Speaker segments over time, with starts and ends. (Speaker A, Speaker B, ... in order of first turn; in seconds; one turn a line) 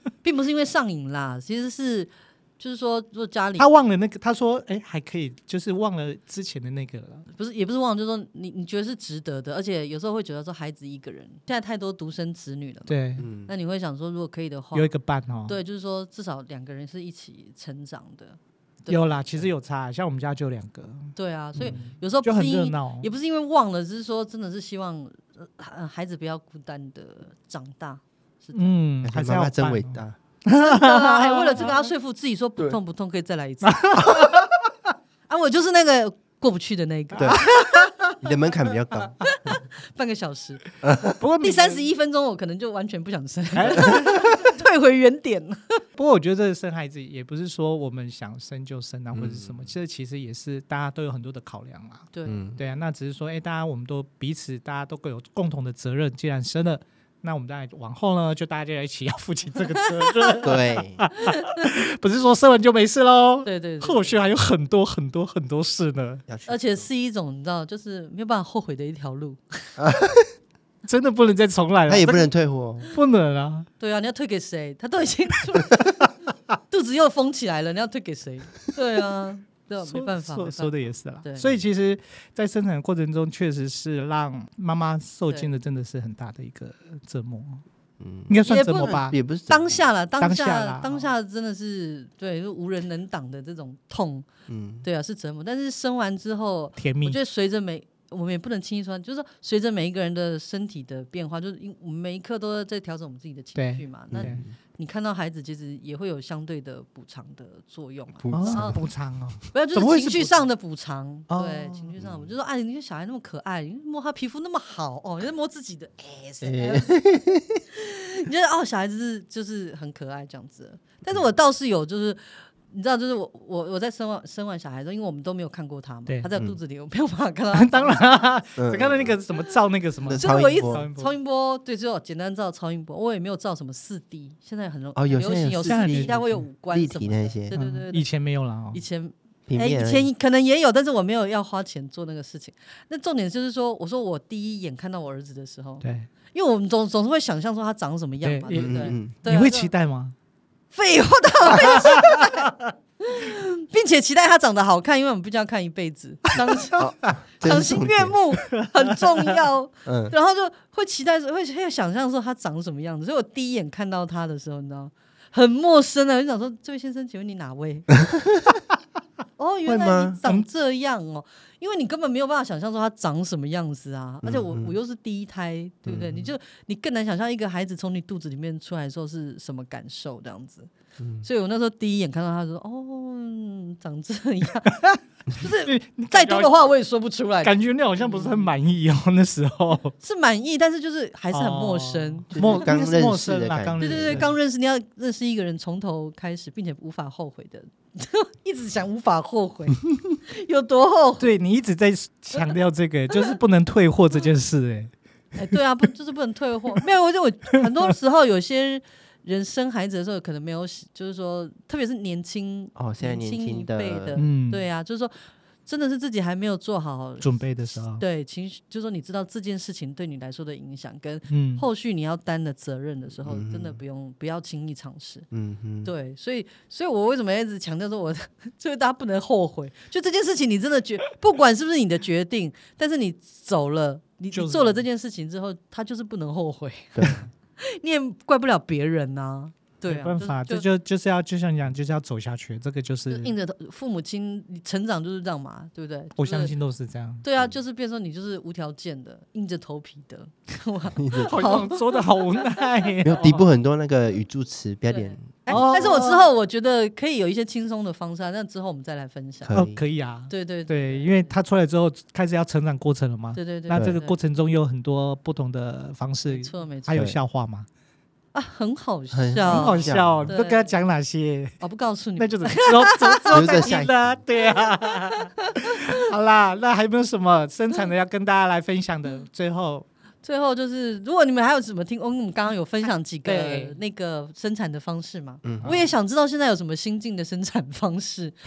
Speaker A: 0.2-3.7
Speaker B: 3.6-7.3
Speaker A: 7.3-14.9
Speaker B: 12.9-13.3
Speaker C: 13.2-13.5
Speaker B: 14.8-15.6
Speaker A: 15.5-19.4
Speaker B: 18.9-23.1
Speaker A: 21.1-28.8
Speaker B: 28.5-31.9
Speaker C: 29.0-30.2
Speaker A: 30.6-34.0
Speaker B: 33.7-34.4
Speaker C: 34.0-34.4
Speaker A: 35.3-37.9
Speaker C: 37.2-37.5
Speaker B: 37.2-37.9
Speaker C: 38.2-39.6
Speaker A: 39.2-40.6
Speaker C: 40.8-41.1
Speaker B: 41.2-41.9
Speaker A: 41.4-45.8
Speaker B: 43.5-44.6
Speaker B: 46.0-66.2
Speaker C: 49.1-49.7
Speaker A: 52.1-52.4
Speaker C: 52.3-52.6
Speaker A: 59.8-60.5
Speaker C: 60.4-61.0
Speaker A: 61.2-61.7
Speaker A: 63.4-64.2
Speaker C: 66.3-66.9
Speaker A: 66.5-69.8
Speaker C: 69.8-70.3
Speaker B: 70.8-72.3
Speaker C: 71.9-72.9
Speaker B: 72.9-73.7
Speaker A: 73.8-76.0
Speaker A: 76.7-81.6
Speaker B: 79.9-87.6
Speaker C: 88.0-89.8
Speaker B: 88.3-89.2
Speaker A: 88.5-94.3
Speaker B: 90.2-91.1
Speaker C: 94.5-94.9
Speaker A: 94.8-108.8
Speaker B: 96.8-97.2
Speaker B: 103.5-104.4
Speaker C: 104.1-104.5
Speaker C: 108.2-108.8
Speaker B: 108.3-110.4
Speaker A: 109.5-117.0
Speaker B: 111.3-111.9
Speaker C: 112.0-112.3
Speaker C: 116.4-117.6
Speaker A: 117.8-128.1
Speaker B: 127.5-131.2
Speaker C: 128.6-129.2
Speaker C: 130.1-130.8
Speaker A: 130.2-138.1
Speaker C: 135.0-137.6
Speaker B: 135.7-136.4
Speaker B: 137.5-138.8
Speaker A: 138.7-149.7
Speaker C: 139.5-140.1
Speaker B: 145.8-146.1
Speaker B: 148.2-150.2
Speaker C: 148.5-149.1
Speaker A: 150.7-156.8
Speaker B: 151.5-152.4
Speaker C: 156.8-158.2
Speaker A: 157.4-167.9
Speaker B: 158.5-159.3
Speaker C: 159.8-160.1
Speaker A: 169.4-180.7
Speaker C: 169.7-170.2
Speaker C: 174.2-174.7
Speaker C: 175.9-176.3
Speaker C: 181.0-181.3
Speaker A: 181.2-184.8
Speaker B: 184.7-185.0
Speaker A: 185.4-188.5
Speaker B: 185.7-186.7
Speaker B: 187.4-189.9
Speaker A: 190.0-192.3
Speaker B: 191.3-194.3
Speaker C: 192.3-194.3
Speaker A: 193.8-201.3
Speaker B: 201.2-204.9
Speaker A: 205.3-225.3
Speaker C: 212.8-214.2
Speaker B: 214.2-214.7
Speaker B: 217.2-218.0
Speaker B: 221.3-221.7
Speaker C: 223.2-223.8
Speaker C: 225.3-225.9
Speaker A: 225.8-240.7
Speaker B: 234.3-234.8
Speaker B: 239.9-243.3
Speaker A: 243.1-246.5
Speaker B: 246.2-247.2
Speaker A: 247.2-253.4
Speaker C: 250.9-251.4
Speaker B: 251.2-253.4
Speaker C: 253.0-256.1
Speaker A: 254.9-259.5
Speaker B: 255.5-256.2
Speaker C: 259.4-259.8
Speaker B: 259.5-267.7
Speaker A: 260.3-261.4
Speaker A: 263.4-264.2
Speaker C: 263.7-264.0
Speaker A: 266.2-267.0
Speaker A: 268.3-270.8
Speaker C: 269.1-270.3
Speaker B: 269.5-271.6
Speaker A: 271.6-273.7
Speaker B: 272.2-279.9
Speaker C: 273.3-274.2
Speaker A: 274.9-276.0
Speaker A: 280.2-288.4
Speaker B: 283.2-283.7
Speaker C: 285.4-285.9